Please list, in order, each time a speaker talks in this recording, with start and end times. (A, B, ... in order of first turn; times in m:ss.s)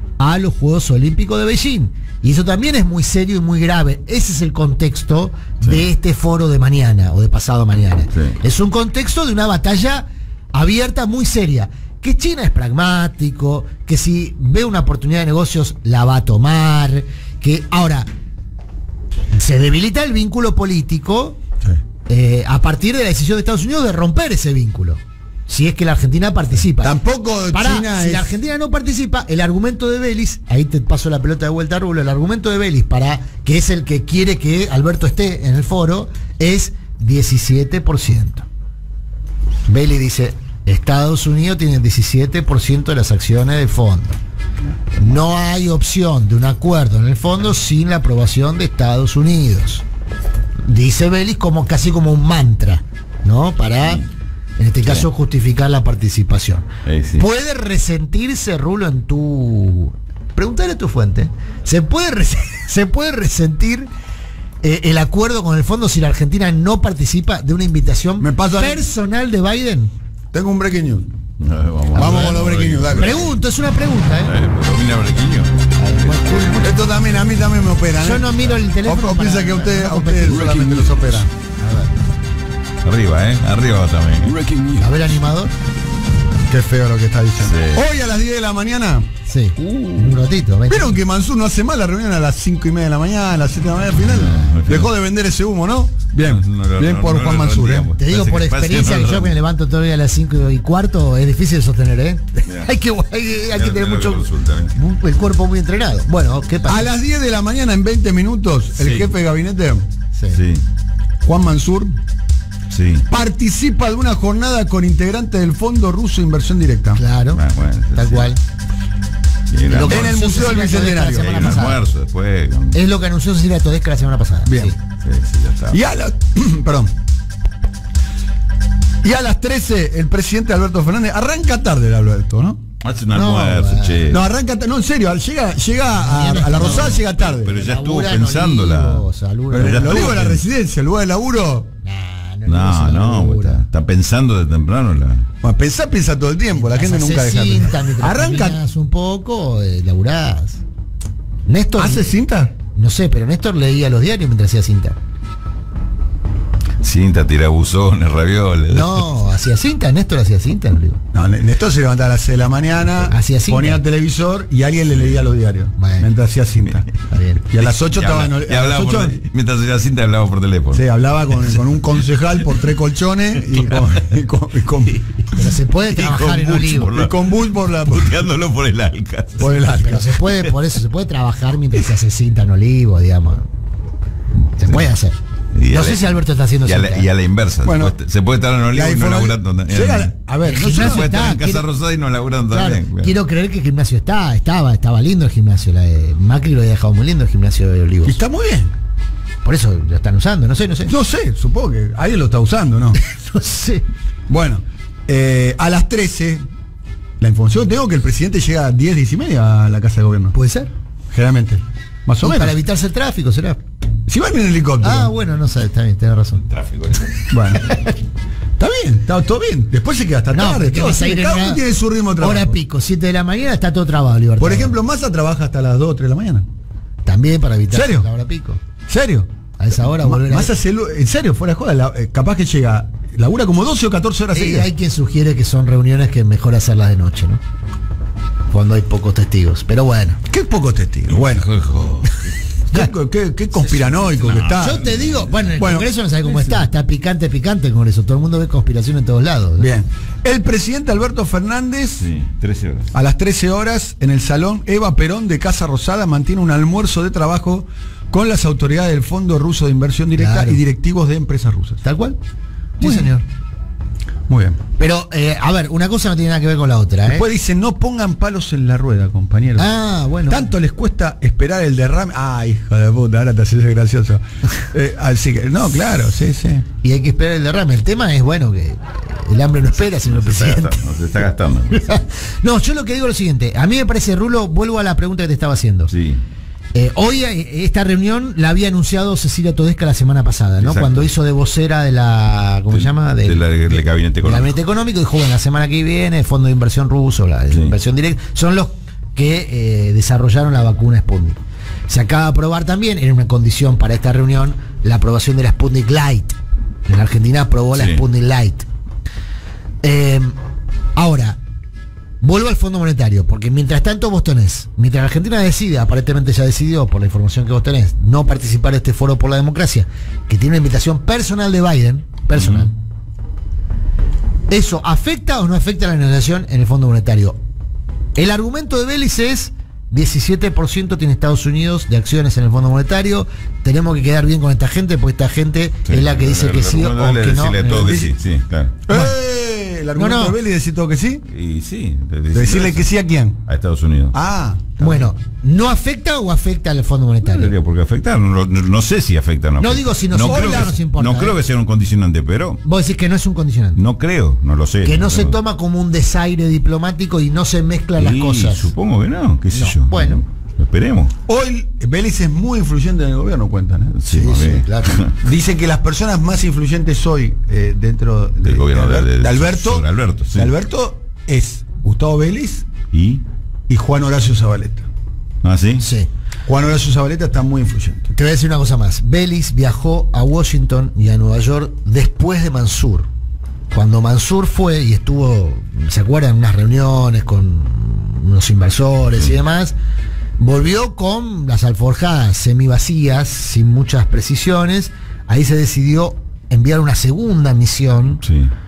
0:00.2-0:18.1 A
0:19.3-0:21.4 A
0:22.1-0:27.0 A
0:26.8-0:28.3 B
0:27.5-0:38.5 A
0:39.7-0:44.2 A
0:45.0-0:49.8 A
0:50.7-0:54.0 A
0:54.6-1:03.9 A
0:56.8-0:57.2 C
1:04.6-1:09.9 A
1:08.2-1:08.8 B
1:10.3-1:11.1 B
1:11.4-1:13.4 C
1:11.9-1:13.2 B
1:12.0-1:12.4 A
1:12.9-1:14.3 A
1:14.2-1:16.4 C
1:15.8-1:16.9 A
1:16.6-1:21.3 B
1:18.0-1:20.7 A
1:21.6-1:21.9 A
1:22.8-1:24.6 C
1:24.8-1:25.5 A
1:26.5-1:29.1 B
1:27.4-1:27.8 C
1:29.3-1:31.0 A
1:29.6-1:30.0 C
1:30.7-1:37.9 B
1:34.0-1:34.9 C
1:36.2-1:39.4 C
1:38.0-1:46.9 A
1:43.5-1:44.7 C
1:46.7-1:49.9 B
1:48.8-1:49.1 C
1:50.3-1:50.6 C
1:51.2-1:52.0 B
1:52.7-1:53.1 C
1:53.1-1:57.0 B
1:57.0-1:57.4 A
1:57.3-1:58.3 C
1:58.0-1:58.4 A
1:59.5-2:02.8 C
1:59.7-2:01.8 A
1:59.8-2:01.6 B
2:02.7-2:04.8 A
2:04.5-2:04.8 B
2:05.0-2:05.8 C
2:05.7-2:06.9 B
2:09.0-2:12.6 B
2:12.8-2:14.2 C
2:13.1-2:14.2 A
2:14.1-2:17.6 B
2:16.0-2:20.1 A
2:16.3-2:20.4 C
2:19.5-2:21.7 B
2:21.8-2:23.6 A
2:22.5-2:25.3 C
2:25.4-2:28.6 B
2:26.6-2:30.6 A
2:31.5-2:32.1 A
2:31.8-2:32.6 B
2:32.7-2:35.0 A
2:36.8-2:39.1 C
2:38.7-2:41.0 A
2:41.1-2:46.9 B
2:43.1-2:43.8 A
2:45.8-2:46.1 A
2:47.1-2:47.4 A
2:47.4-2:49.2 B
2:47.6-2:50.9 C
2:50.7-2:55.1 B
2:53.6-2:53.8 C
2:55.3-2:57.0 A
2:55.9-2:59.7 C
2:56.9-2:58.2 B
2:59.4-3:00.3 B
2:59.8-3:03.5 A
3:04.5-3:05.2 A
3:05.6-3:13.1 C
3:05.7-3:07.1 A
3:07.6-3:08.0 B
3:08.7-3:11.3 B
3:10.4-3:11.6 A
3:12.5-3:18.2 A
3:18.0-3:18.7 B
3:19.4-3:20.9 A
3:20.9-3:23.0 B
3:23.0-3:23.8 A
3:24.3-3:26.5 B
3:27.2-3:30.4 B
3:30.3-3:30.7 A
3:31.1-3:32.6 B
3:32.2-3:33.6 A
3:34.1-3:35.1 B
3:34.8-3:36.5 A
3:36.5-3:37.2 C
3:37.3-3:37.6 B
3:37.5-3:38.0 A
3:38.6-3:42.6 B
3:40.3-3:41.6 A
3:42.2-3:44.7 A
3:44.4-3:46.5 B
3:47.0-3:48.6 A
3:47.7-3:48.1 B
3:48.9-3:54.7 B
3:49.6-3:50.5 A
3:54.3-3:57.4 A
3:58.5-4:00.2 A
4:00.3-4:01.5 B
4:01.2-4:02.3 C
4:02.7-4:04.8 B
4:03.7-4:05.5 C
4:04.6-4:09.7 A
4:05.6-4:05.9 B
4:09.6-4:12.1 B
4:12.0-4:12.9 C
4:12.9-4:21.8 B
4:20.2-4:20.6 A
4:21.8-4:22.2 A
4:22.8-4:23.2 B
4:22.8-4:23.2 A
4:24.3-4:24.6 B
4:24.8-4:27.3 A
4:27.1-4:29.7 B
4:29.6-4:30.5 A
4:30.3-4:36.7 B
4:36.8-4:41.0 A
4:39.9-4:42.0 C
4:41.7-4:45.9 A
4:45.9-4:46.2 C
4:46.7-5:06.4 A
4:50.6-4:51.1 C
4:52.7-4:54.5 C
4:57.5-4:57.8 C
5:06.9-5:08.7 A
5:07.7-5:08.0 C
5:09.8-5:10.4 A
5:11.0-5:11.4 A
5:12.2-5:22.7 A
5:22.4-5:22.7 C
5:24.5-5:27.4 A
5:28.2-5:38.0 A
5:35.9-5:38.8 C
5:37.8-5:38.1 B
5:38.9-5:41.3 B
5:40.0-5:40.4 A
5:41.3-5:42.9 C
5:42.3-5:43.4 B
5:43.5-5:44.2 C
5:44.1-5:45.1 B
5:44.8-5:47.5 A
5:47.2-5:52.6 C
5:49.6-5:51.4 A
5:50.2-5:50.8 B
5:52.6-5:53.8 A
5:53.8-5:55.4 C
5:54.8-5:58.7 A
5:58.0-6:01.1 C
5:59.5-6:00.2 A
6:01.3-6:04.1 B
6:04.0-6:05.2 C
6:04.1-6:05.0 A
6:05.2-6:12.7 B
6:08.4-6:10.5 C
6:12.9-6:13.2 C
6:13.7-6:14.9 B
6:15.4-6:15.8 C
6:15.8-6:16.1 A
6:16.5-6:18.1 B
6:18.1-6:23.1 A
6:23.7-6:29.8 A
6:30.4-6:38.2 A
6:38.2-6:38.5 C